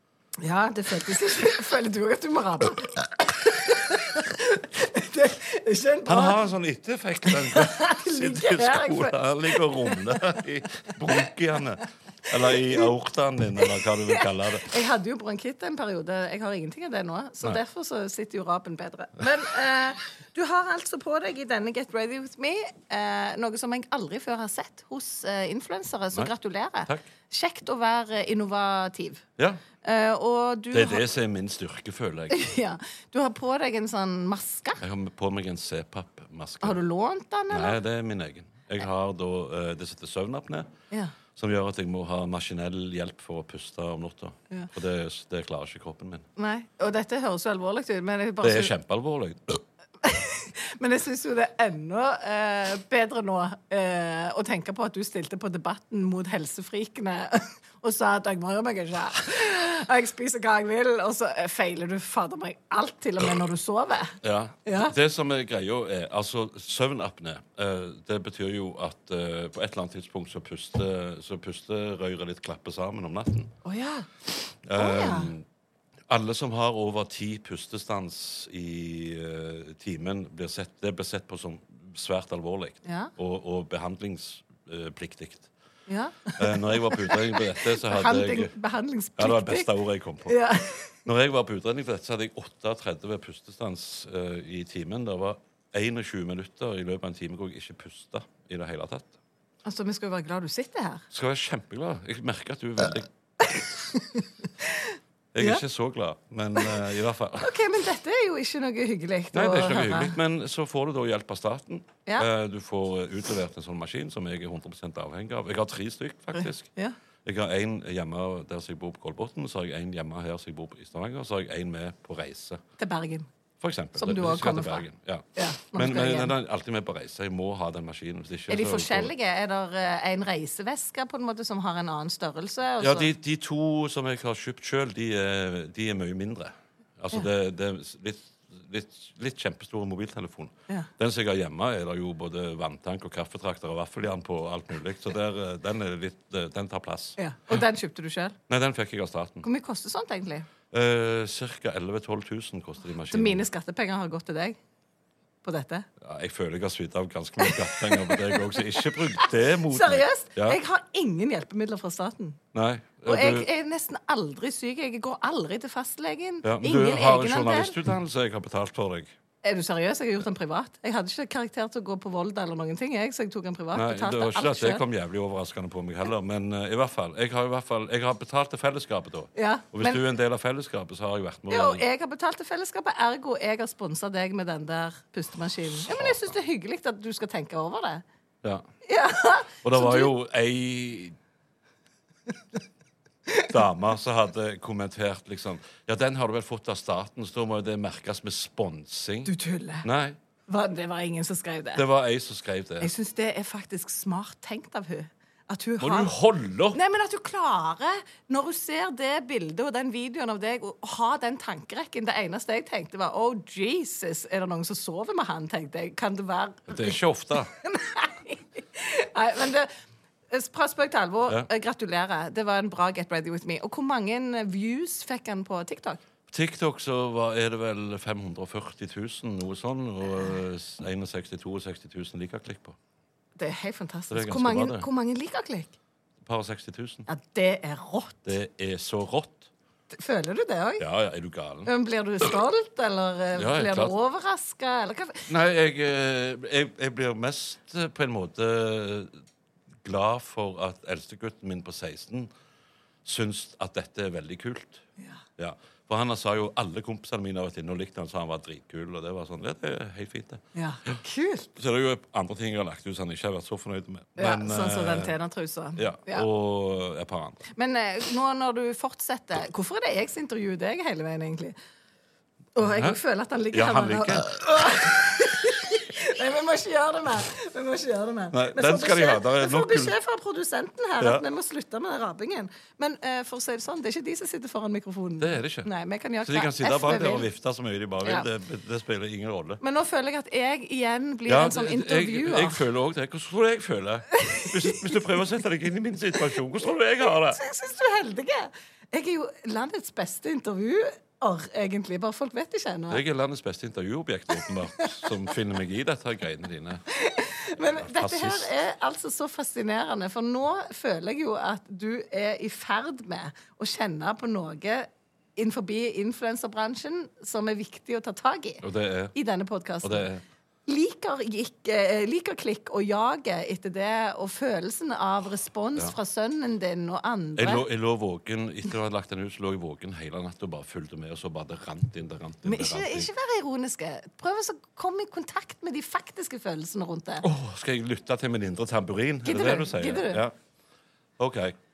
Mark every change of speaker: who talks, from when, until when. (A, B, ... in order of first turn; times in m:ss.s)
0:00.4-0:06.4 A
0:06.1-0:14.7 B
0:07.5-0:10.0 A
0:14.0-0:29.2 A
0:29.8-0:31.0 A
0:30.7-0:32.4 B
0:32.3-0:34.8 A
0:34.8-0:36.8 B
0:36.6-0:37.8 A
0:37.5-0:40.7 B
0:41.3-0:46.3 B
0:46.4-0:48.7 A
0:48.4-0:49.6 B
0:50.0-1:04.1 A
1:04.2-1:13.5 B
1:04.6-1:04.9 A
1:13.6-1:14.1 A
1:14.6-1:15.4 B
1:14.7-1:15.3 A
1:16.1-1:25.5 B
1:22.8-1:23.1 A
1:25.9-1:29.7 A
1:26.4-1:28.5 B
1:29.2-1:30.4 B
1:30.2-1:30.9 A
1:31.0-1:39.1 B
1:39.6-1:41.0 A
1:41.1-1:43.1 B
1:43.5-1:45.6 A
1:45.3-1:47.5 B
1:47.4-1:50.1 A
1:49.3-1:56.7 B
1:56.3-1:57.0 A
1:57.2-2:02.6 B
2:02.8-2:03.3 A
2:03.6-2:09.1 B
2:04.0-2:04.8 A
2:05.4-2:06.3 A
2:08.5-2:13.1 A
2:12.8-2:27.6 B
2:27.2-2:28.3 A
2:28.5-2:29.4 B
2:29.4-2:30.5 A
2:30.7-2:33.5 B
2:33.1-2:34.6 A
2:35.4-2:35.8 A
2:36.0-2:40.6 B
2:37.4-2:42.4 A
2:42.5-2:43.5 B
2:43.0-2:47.8 A
2:46.4-2:49.1 B
2:49.4-2:54.8 A
2:53.7-3:01.8 B
2:59.4-3:00.0 A
3:01.5-3:08.0 A
3:05.7-3:06.3 B
3:08.8-3:10.1 A
3:09.6-3:11.1 B
3:13.5-3:20.2 B
3:19.2-3:19.8 A
3:20.5-3:21.8 A
3:21.8-3:22.9 B
3:22.8-3:26.1 A
3:25.8-3:26.8 B
3:26.7-3:37.0 A
3:36.7-3:37.5 B
3:37.6-3:39.7 A
3:40.3-3:46.0 A
3:46.3-3:52.8 B
3:53.4-3:55.7 A
3:54.1-3:54.9 B
3:56.2-3:57.0 B
3:57.1-3:58.3 A
3:58.2-3:59.5 B
3:59.9-4:00.8 A
4:00.8-4:01.7 B
4:01.6-4:05.3 A
4:03.3-4:03.9 B
4:05.3-4:09.1 B
4:09.8-4:12.3 B
4:13.0-4:14.8 B
4:15.4-4:21.0 B
4:20.5-4:21.5 A
4:21.6-4:25.1 B
4:24.2-4:26.3 A
4:25.8-4:27.4 B
4:27.6-4:31.6 A
4:32.6-4:47.2 A
4:32.7-4:33.0 B
4:33.5-4:34.3 B
4:38.3-4:39.9 B
4:45.2-4:45.7 B
4:46.2-4:49.6 B
4:49.6-4:52.6 A
4:51.3-4:57.4 B
4:54.2-4:54.8 A
4:57.0-5:03.0 A
5:02.9-5:06.8 B
5:06.9-5:20.1 A
5:07.6-5:08.5 B
5:18.6-5:19.1 B
5:19.8-5:20.2 B
5:20.6-5:27.6 A
5:27.4-5:33.1 B
5:32.4-5:37.2 A
5:37.2-5:40.3 B
5:39.2-5:40.2 A
5:41.2-5:41.5 B